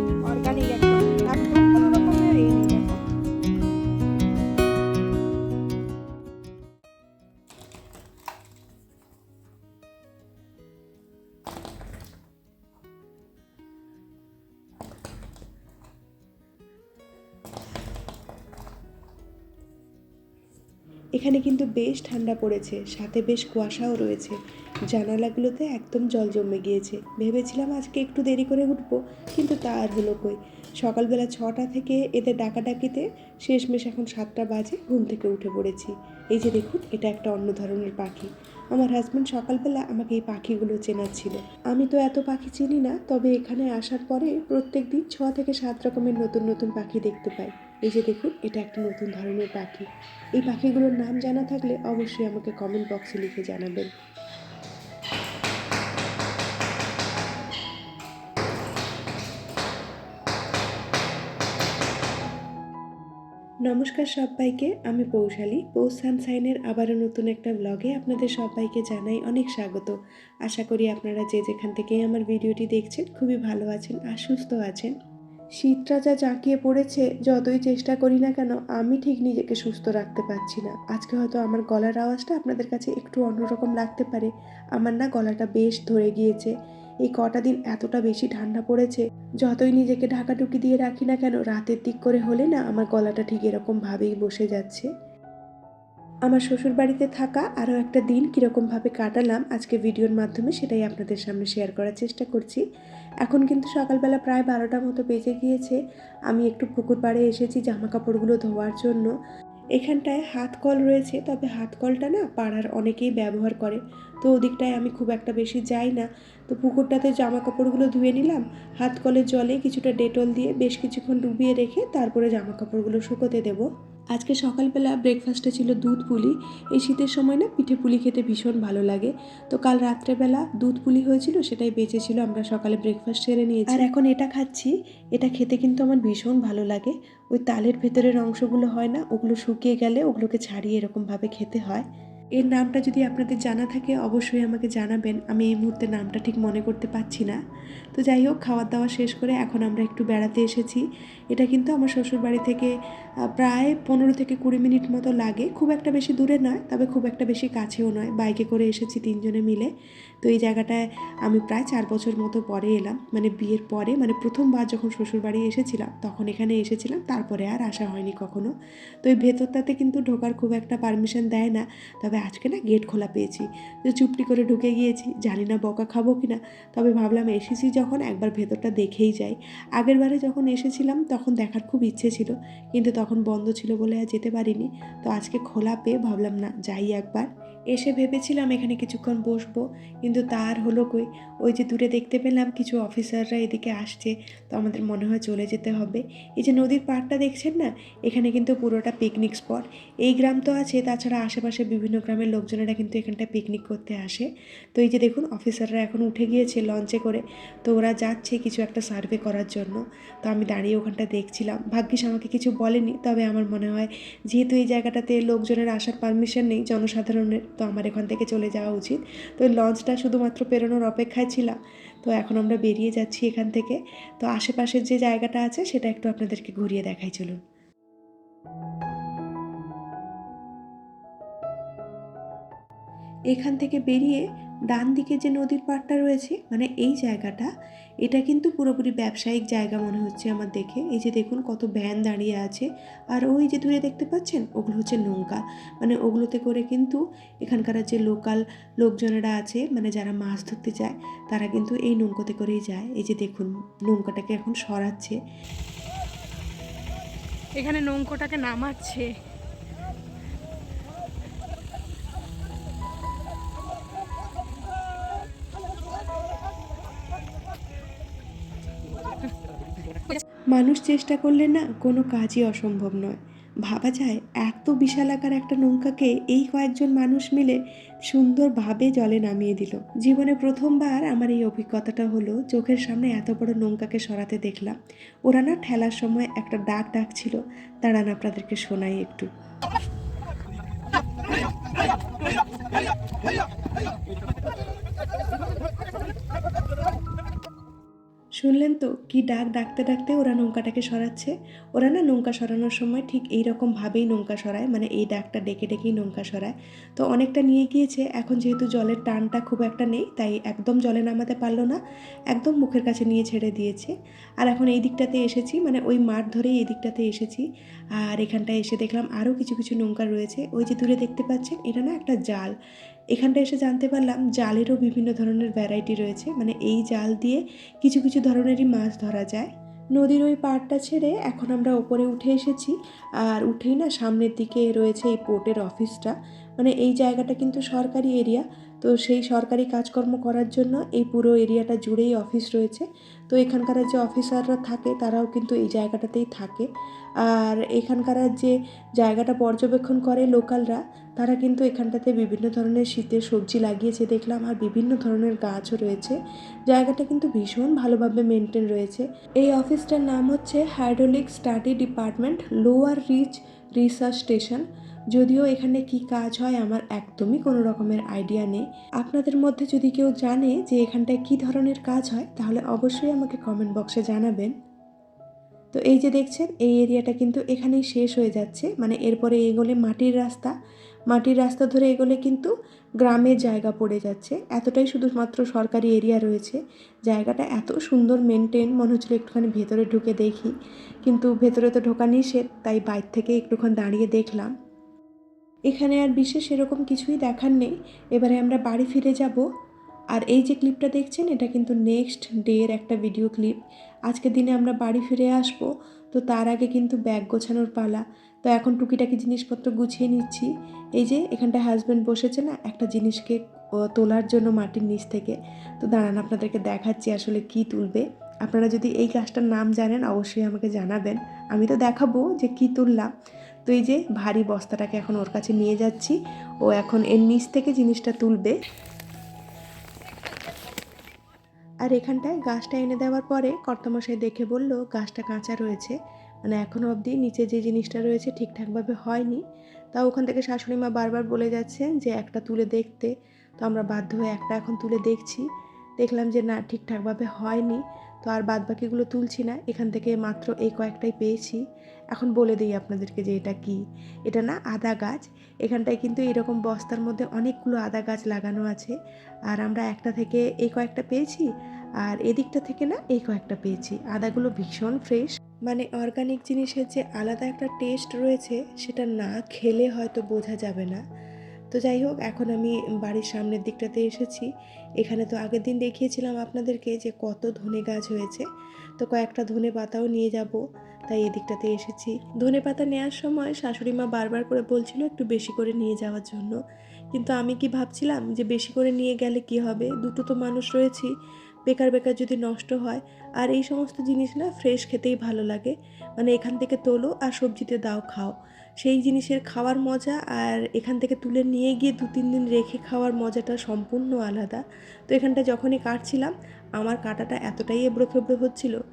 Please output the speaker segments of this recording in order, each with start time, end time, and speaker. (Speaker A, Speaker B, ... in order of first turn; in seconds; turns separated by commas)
Speaker A: 0.3-3.0, Speaker A: 21.2-24.4, Speaker A: 24.9-53.9, Speaker A: 63.7-70.0, Speaker A: 70.5-75.0, Speaker A: 75.6-86.5, Speaker A: 87.1-94.9, Speaker A: 96.3-102.6, Speaker A: 103.2-109.1, Speaker A: 109.8-141.9, Speaker A: 142.4-147.4, Speaker A: 147.9-152.7, Speaker A: 153.4-159.7, Speaker A: 160.2-227.4, Speaker A: 233.3-237.5, Speaker A: 238.0-255.2, Speaker A: 257.6-259.1, Speaker A: 270.5-289.3, Speaker A: 298.4-317.5, Speaker A: 318.0-322.5, Speaker A: 323.1-346.7, Speaker A: 347.2-356.2, Speaker A: 356.7-374.5, Speaker A: 375.7-380.5, Speaker A: 381.1-390.5, Speaker A: 391.1-394.5, Speaker A: 395.7-399.4, Speaker A: 400.1-403.6, Speaker A: 404.1-413.4, Speaker A: 413.9-423.1, Speaker A: 423.7-428.5, Speaker A: 431.8-439.4, Speaker A: 439.9-445.5, Speaker A: 446.0-459.0, Speaker A: 459.5-461.5, Speaker A: 462.0-471.0, Speaker A: 471.7-474.5, Speaker A: 475.0-478.5, Speaker A: 479.0-486.6, Speaker A: 487.1-491.1, Speaker A: 491.7-508.8